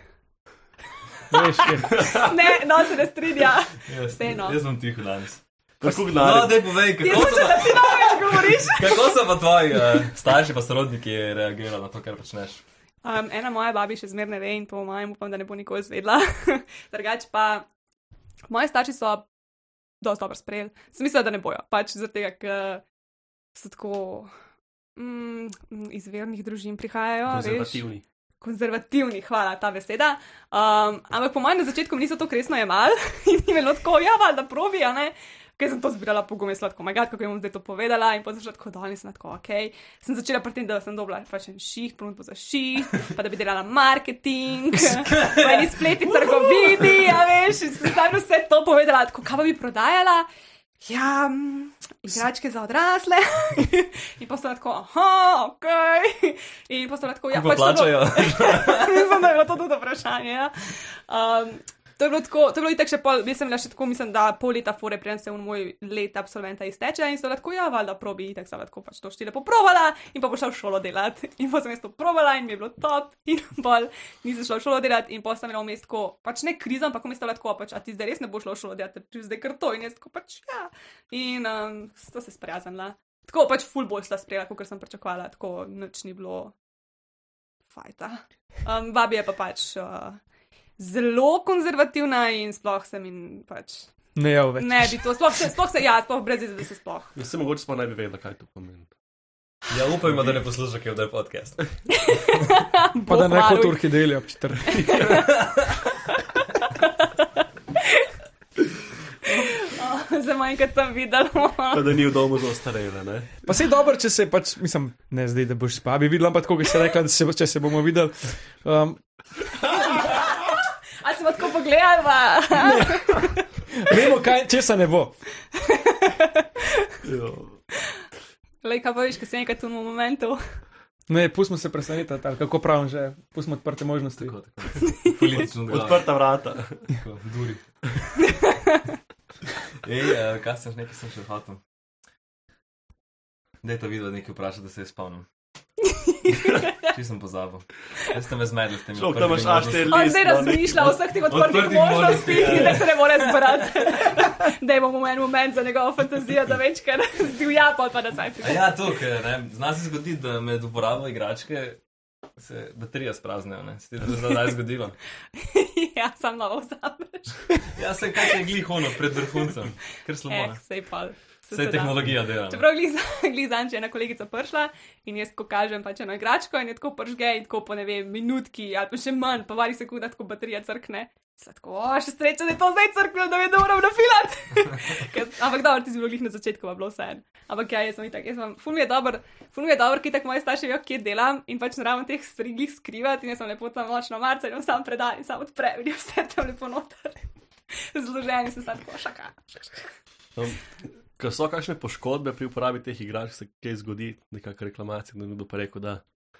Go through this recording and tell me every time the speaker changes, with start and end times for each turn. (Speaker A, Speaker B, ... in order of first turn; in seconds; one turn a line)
Speaker A: 1.3-1.9
Speaker B: 1.9-4.6
Speaker C: 2.0-2.2
Speaker D: 3.9-12.6
Speaker C: 5.8-6.7
Speaker B: 7.0-9.0
Speaker B: 13.0-17.6
Speaker B: 18.5-19.3
Speaker B: 20.0-22.8
Speaker B: 23.6-24.3
Speaker B: 25.0-27.8
Speaker C: 27.3-28.0
Speaker B: 28.4-50.3
Speaker B: 50.8-86.5
Speaker D: 57.3-59.1
Speaker B: 87.7-90.2
Speaker B: 90.8-93.9
Speaker A: 94.2-95.1
Speaker B: 94.5-97.1
Speaker C: 97.1-98.9
Speaker D: 99.7-101.6
Speaker B: 101.9-104.0
Speaker A: 103.0-105.3
Speaker B: 104.9-105.3
Speaker B: 106.8-107.3
Speaker B: 109.3-111.9
Speaker C: 111.7-113.3
Speaker A: 113.4-119.0
Speaker B: 119.9-120.5
Speaker B: 121.0-123.4
Speaker A: 122.6-125.2
Speaker B: 125.5-126.9
Speaker C: 127.0-127.6
Speaker B: 128.6-130.4
Speaker A: 131.1-134.3
Speaker D: 134.2-136.1
Speaker C: 135.7-136.8
Speaker D: 136.9-137.6
Speaker B: 138.2-138.8
Speaker D: 139.8-141.6
Speaker D: 143.6-145.3
Speaker B: 145.9-146.7
Speaker D: 146.8-150.1
Speaker C: 149.0-150.9
Speaker B: 149.9-158.8
Speaker D: 151.2-153.5
Speaker D: 158.4-161.8
Speaker D: 162.4-165.0
Speaker B: 165.3-167.5
Speaker D: 167.7-170.6
Speaker B: 170.3-199.9
Speaker D: 171.5-172.7
Speaker C: 200.3-206.0